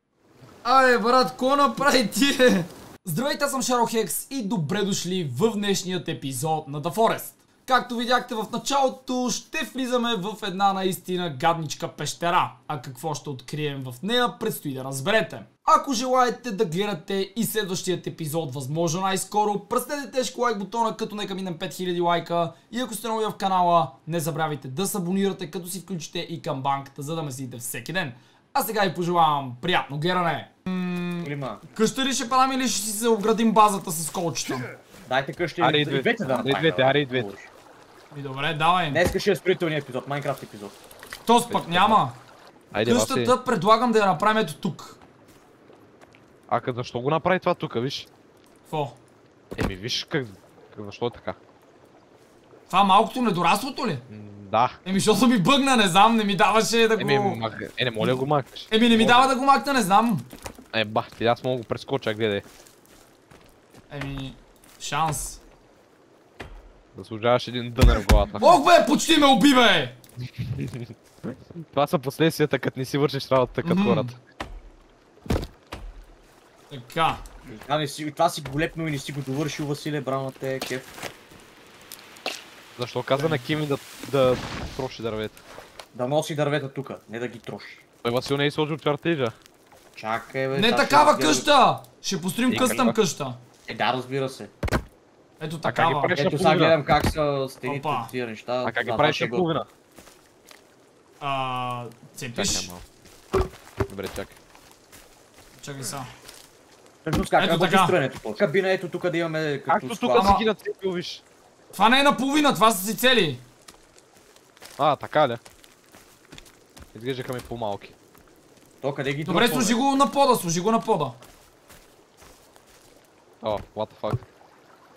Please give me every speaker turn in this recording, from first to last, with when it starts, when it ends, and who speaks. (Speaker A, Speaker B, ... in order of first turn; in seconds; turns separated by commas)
Speaker A: 0.6-34.7, Speaker B: 31.2-31.6, Speaker B: 35.1-37.5, Speaker C: 35.6-37.3, Speaker A: 38.1-39.0, Speaker B: 38.9-40.8, Speaker A: 41.2-42.2, Speaker C: 41.5-42.0, Speaker C: 42.7-43.3, Speaker A: 42.8-45.0, Speaker C: 46.5-48.1, Speaker A: 48.7-49.0, Speaker C: 49.5-51.4, Speaker A: 52.7-54.0, Speaker C: 54.1-54.8, Speaker A: 54.8-57.4, Speaker C: 57.0-59.3, Speaker A: 58.7-60.3, Speaker C: 60.7-62.4, Speaker A: 63.9-65.4, Speaker C: 66.9-68.6, Speaker A: 68.4-70.0, Speaker C: 70.2-74.2, Speaker A: 73.6-74.1, Speaker A: 76.7-77.2, Speaker B: 77.5-80.9, Speaker C: 82.8-85.4, Speaker B: 85.9-87.8, Speaker C: 88.0-89.3, Speaker B: 90.0-91.5, Speaker A: 90.5-93.4, Speaker C: 92.5-93.0, Speaker B: 93.7-94.5, Speaker A: 95.4-96.1, Speaker C: 95.6-96.8, Speaker B: 96.1-99.5, Speaker A: 97.7-98.1, Speaker C: 98.6-99.7, Speaker A: 101.2-102.7, Speaker C: 102.3-102.8, Speaker C: 103.9-104.4, Speaker A: 105.5-106.1, Speaker B: 107.0-110.3, Speaker A: 107.4-107.9, Speaker C: 109.7-111.2, Speaker A: 110.1-110.4, Speaker A: 111.7-113.4, Speaker C: 114.8-115.4, Speaker C: 116.9-117.9, Speaker B: 118.8-119.8, Speaker A: 119.2-121.2, Speaker C: 123.4-124.2